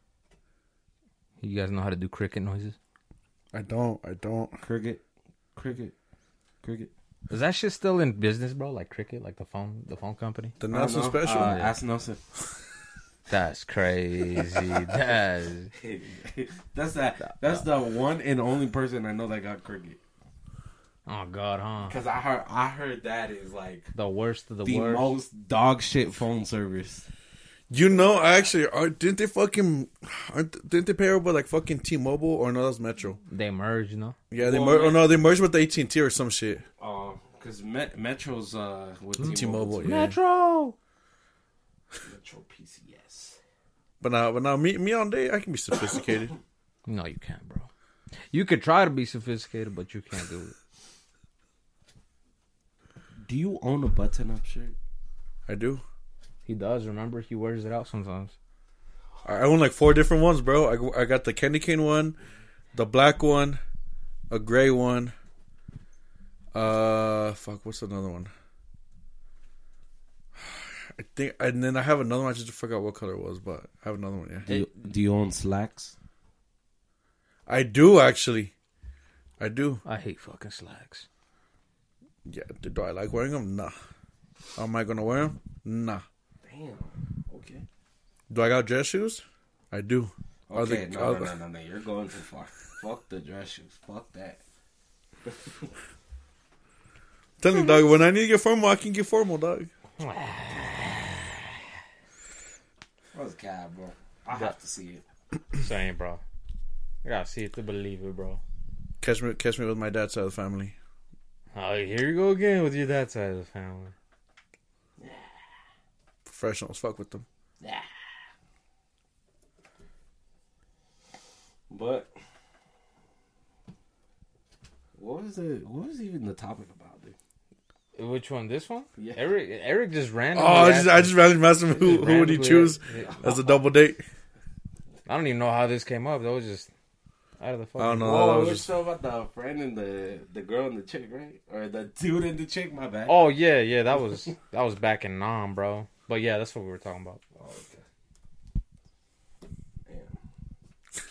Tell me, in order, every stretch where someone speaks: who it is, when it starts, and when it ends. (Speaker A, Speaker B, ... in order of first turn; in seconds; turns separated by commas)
Speaker A: 1.4-2.8, Speaker B: 3.5-4.6, Speaker C: 4.6-5.0, Speaker C: 5.5-5.9, Speaker C: 6.6-6.9, Speaker A: 7.3-10.6, Speaker B: 10.6-11.6, Speaker C: 10.7-12.2, Speaker A: 11.3-11.7, Speaker A: 13.3-15.7, Speaker C: 15.8-20.0, Speaker A: 17.3-17.6, Speaker A: 21.1-21.9, Speaker C: 21.9-23.9, Speaker A: 23.9-25.1, Speaker C: 24.6-27.1, Speaker B: 27.7-33.2, Speaker C: 27.8-28.5, Speaker A: 33.2-34.2, Speaker B: 34.3-36.6, Speaker C: 34.4-35.1, Speaker C: 36.8-40.0, Speaker A: 39.2-40.8, Speaker B: 39.2-40.1, Speaker C: 42.0-43.4, Speaker B: 44.0-46.3, Speaker A: 46.9-47.7, Speaker A: 48.3-50.5, Speaker C: 53.2-54.7, Speaker B: 55.5-55.8, Speaker A: 56.5-58.3, Speaker B: 59.2-62.1, Speaker B: 62.7-63.6, Speaker B: 64.3-65.1, Speaker B: 66.5-68.3, Speaker B: 70.4-74.5, Speaker C: 74.5-75.9, Speaker B: 77.5-78.5, Speaker B: 79.4-79.8, Speaker A: 79.8-81.0, Speaker B: 82.2-83.7, Speaker B: 84.5-86.0, Speaker C: 86.4-87.7, Speaker B: 88.3-91.3, Speaker C: 90.5-94.4, Speaker C: 95.3-95.5, Speaker B: 97.4-99.7, Speaker A: 100.0-101.4, Speaker C: 103.1-105.0, Speaker A: 105.5-106.2, Speaker A: 107.0-108.4, Speaker B: 109.0-110.7, Speaker A: 111.5-113.9, Speaker C: 115.0-115.3, Speaker B: 116.2-117.2, Speaker C: 117.6-117.9, Speaker C: 121.7-122.1, Speaker C: 125.0-127.1, Speaker A: 128.0-133.3, Speaker C: 129.0-129.2, Speaker B: 130.3-134.0, Speaker C: 132.9-133.4, Speaker A: 135.1-136.7, Speaker A: 137.4-138.2, Speaker B: 137.8-138.7, Speaker C: 138.0-143.2, Speaker A: 143.1-147.2, Speaker C: 147.3-147.8, Speaker C: 149.8-150.2